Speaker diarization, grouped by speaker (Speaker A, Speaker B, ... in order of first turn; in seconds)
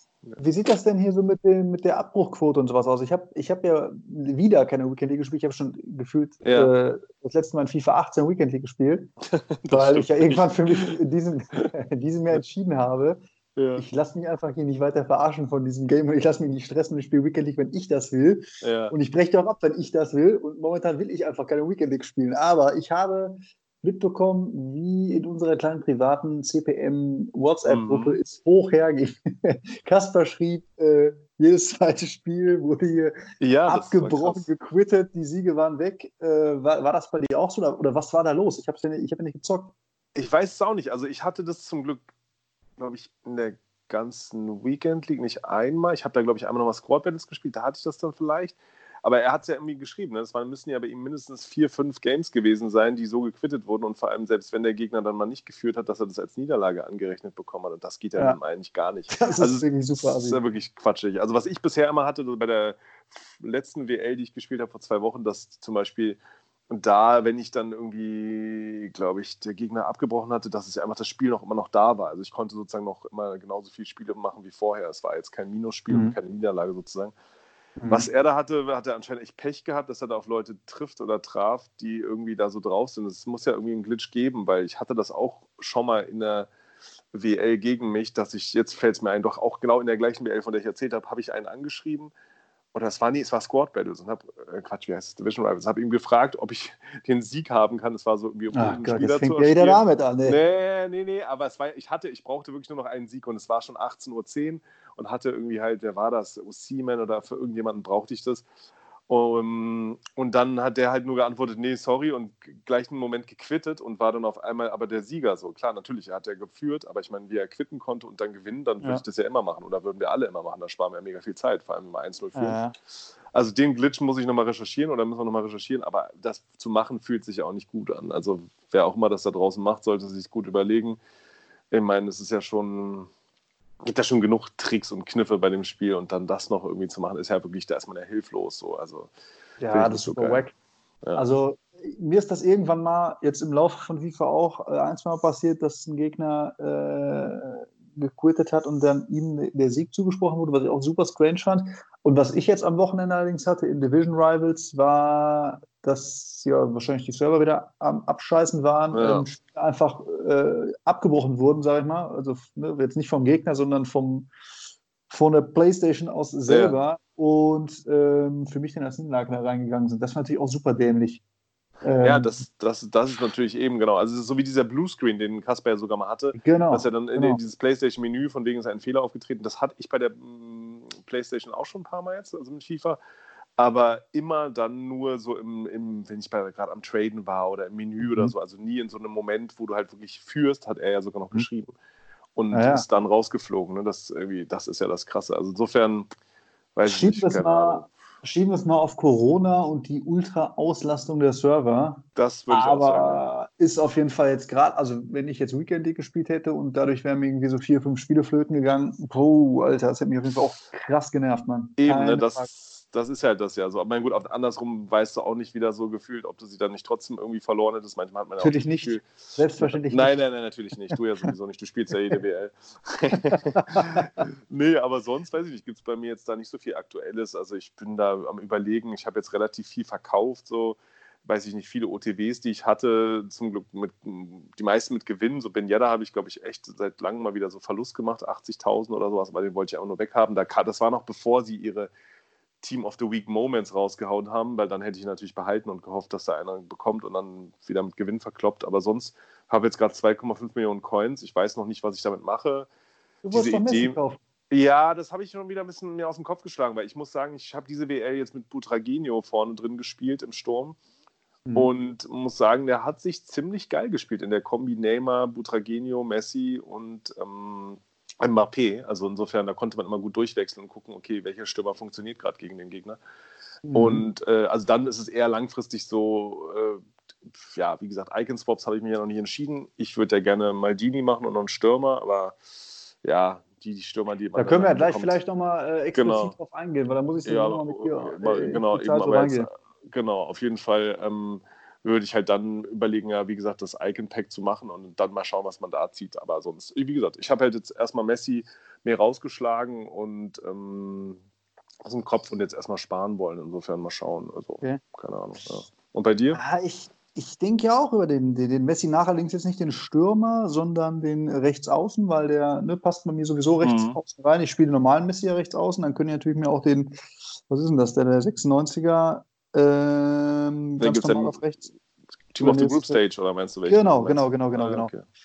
Speaker A: 0.4-9.1, 9.7-13.2, 13.8-33.1, 33.7-39.7, 59.1-60.4, 75.9-76.2, 77.8-78.1, 98.5-100.4, 122.3-122.7, 139.6-140.5, 141.1-164.3, 165.1-171.2, 171.8-172.4, 176.3-177.4, 188.0-188.3, 192.5-192.8, 196.8-212.5, 218.4-220.2, 223.8-224.1, 253.2-254.2, 261.4-261.7, 273.6-274.1, 284.3-289.5, 306.3-316.9, 317.5-321.6, 322.4-323.0, 323.7-324.9
Speaker B: 6.4-6.7, 9.3-10.9, 13.6-13.8, 18.6-18.9, 27.7-28.2, 33.4-34.5, 40.1-42.0, 42.8-66.2, 66.7-77.1, 77.9-86.5, 87.1-92.1, 92.7-108.5, 109.1-122.6, 123.3-131.0, 131.7-133.1, 133.8-139.1, 139.7-140.4, 158.9-159.3, 166.5-166.8, 172.0-183.0, 183.6-191.7, 192.3-196.1, 196.8-197.9, 202.2-203.2, 211.8-241.9, 242.6-252.7, 253.3-254.0, 254.5-260.8, 261.6-273.0, 273.7-282.4, 283.0-285.2, 285.9-286.3, 287.2-301.2, 301.8-306.4, 313.6-314.0, 320.8-321.4, 322.3-325.1